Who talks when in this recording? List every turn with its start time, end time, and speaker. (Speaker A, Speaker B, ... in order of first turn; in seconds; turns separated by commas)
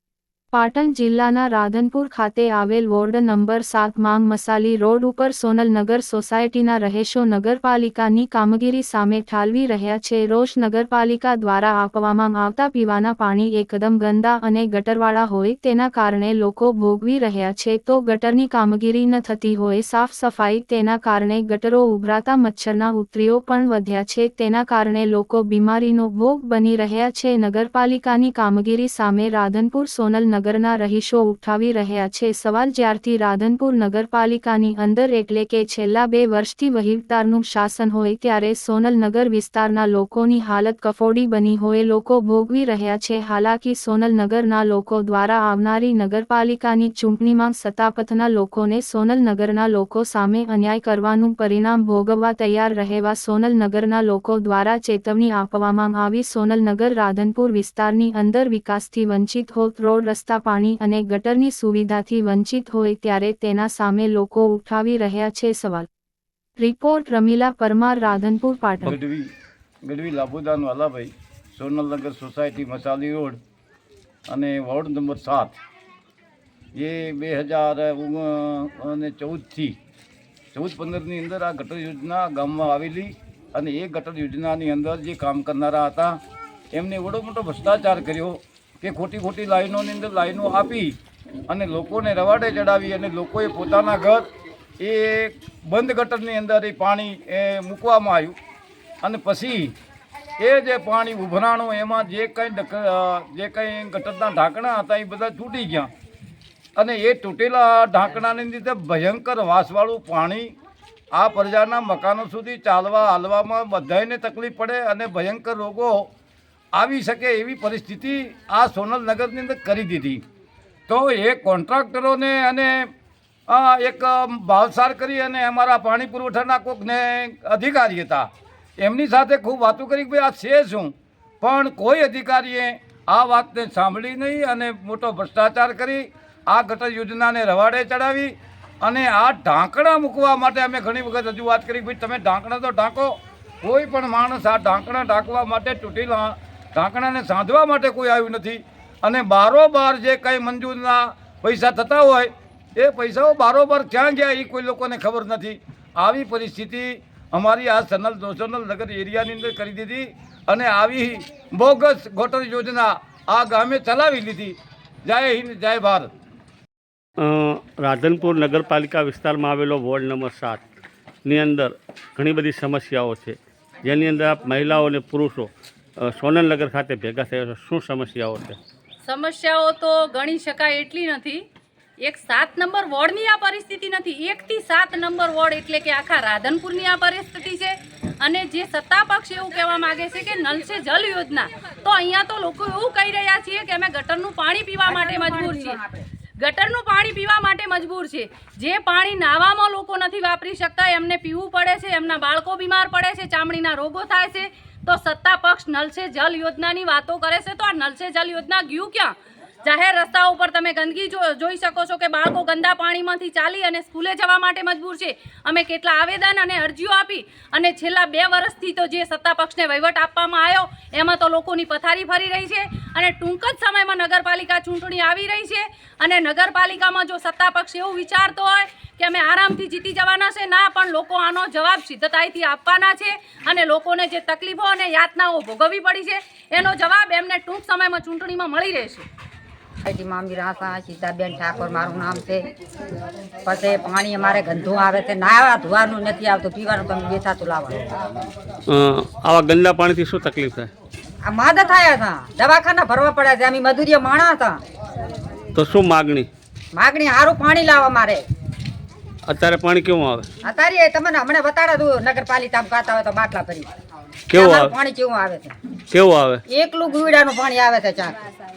Speaker A: 0.5-65.9, Speaker A: 66.6-68.9, Speaker B: 68.8-69.3, Speaker B: 69.8-73.4, Speaker B: 74.3-75.5, Speaker B: 76.8-79.8, Speaker B: 80.5-86.1, Speaker B: 86.7-91.0, Speaker B: 91.5-94.2, Speaker B: 94.8-98.3, Speaker B: 99.0-99.7, Speaker B: 100.4-105.9, Speaker B: 106.8-110.5, Speaker B: 111.1-116.1, Speaker B: 116.7-120.2, Speaker B: 120.9-122.9, Speaker B: 123.5-128.3, Speaker B: 128.8-166.1, Speaker C: 167.2-170.6, Speaker C: 171.2-178.6, Speaker D: 179.0-181.4, Speaker D: 182.0-195.8, Speaker E: 194.8-196.0, Speaker D: 196.4-209.1, Speaker D: 209.6-239.1, Speaker E: 239.8-242.5, Speaker E: 243.4-247.8, Speaker C: 248.7-250.7, Speaker E: 251.2-254.6, Speaker C: 255.5-256.3, Speaker E: 256.7-258.2, Speaker C: 259.2-260.3, Speaker E: 260.4-263.7, Speaker C: 264.3-264.7, Speaker E: 264.3-265.6, Speaker C: 265.9-266.4, Speaker E: 266.5-268.2